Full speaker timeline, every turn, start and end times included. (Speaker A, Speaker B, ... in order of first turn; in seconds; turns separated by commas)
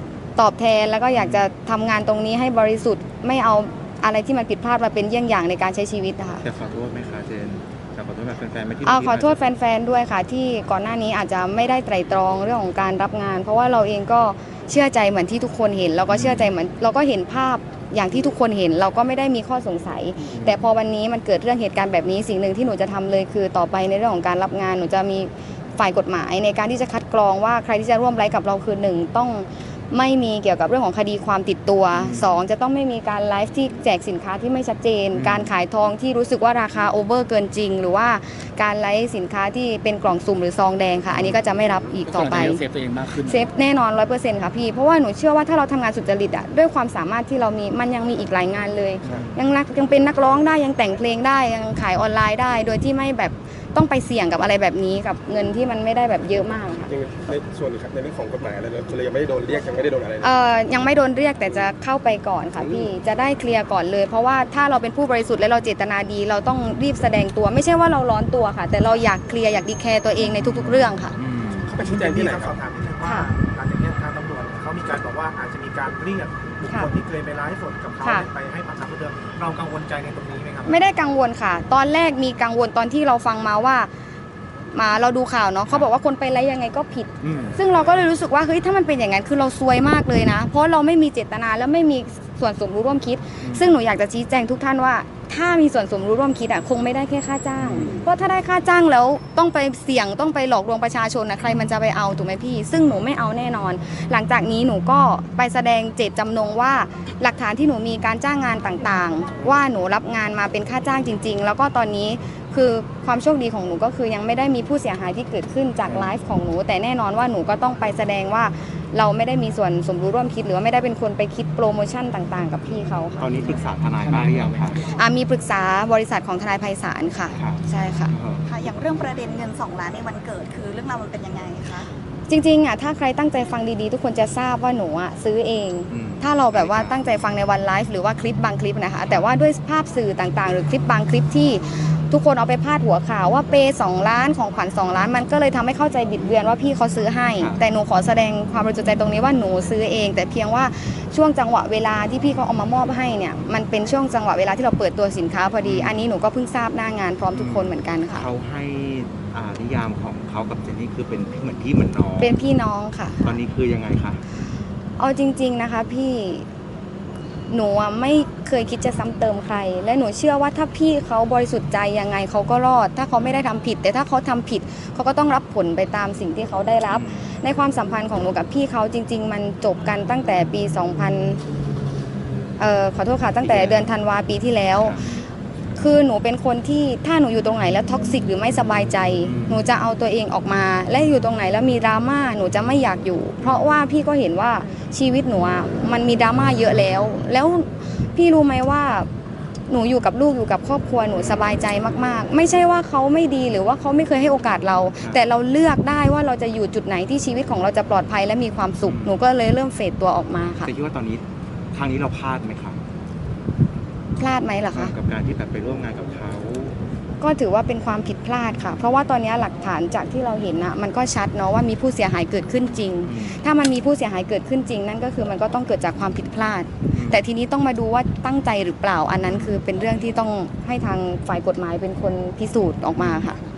Speaker A: 0.4-6.5, Speaker B: 1.1-1.5, Speaker B: 6.4-9.4, Speaker A: 8.8-42.6, Speaker B: 16.1-16.5, Speaker B: 20.3-20.6, Speaker B: 31.9-32.3, Speaker B: 35.1-35.5, Speaker B: 41.1-41.4, Speaker C: 42.1-43.4, Speaker A: 43.2-56.9, Speaker C: 49.0-49.3, Speaker D: 56.9-60.4, Speaker A: 60.2-71.2, Speaker D: 62.6-62.9, Speaker B: 70.2-71.7, Speaker D: 71.7-72.6, Speaker E: 71.8-80.8, Speaker A: 73.0-73.3, Speaker A: 78.0-78.3, Speaker A: 80.7-83.9, Speaker A: 84.7-123.3, Speaker B: 87.2-87.6, Speaker B: 93.4-93.8, Speaker B: 97.6-98.1, Speaker B: 101.4-101.7, Speaker B: 115.9-116.2, Speaker B: 123.2-124.8, Speaker C: 124.0-124.8, Speaker A: 124.9-128.1, Speaker B: 127.3-128.4, Speaker F: 128.4-131.9, Speaker A: 132.3-158.3, Speaker B: 135.9-137.0, Speaker B: 139.1-139.3, Speaker B: 155.6-156.0, Speaker B: 157.3-162.4, Speaker A: 162.2-163.4, Speaker B: 163.2-164.2, Speaker A: 165.0-166.5, Speaker A: 167.5-181.4, Speaker B: 176.9-177.2, Speaker A: 182.6-185.1, Speaker B: 183.4-183.9, Speaker B: 184.8-185.2, Speaker A: 185.8-199.1, Speaker B: 189.2-189.7, Speaker A: 199.7-210.7, Speaker B: 208.8-209.2, Speaker B: 210.6-212.8, Speaker A: 214.2-214.9, Speaker B: 214.7-216.8, Speaker A: 217.2-233.4, Speaker B: 223.1-223.4, Speaker B: 226.9-227.2, Speaker B: 229.2-229.6, Speaker B: 233.0-233.3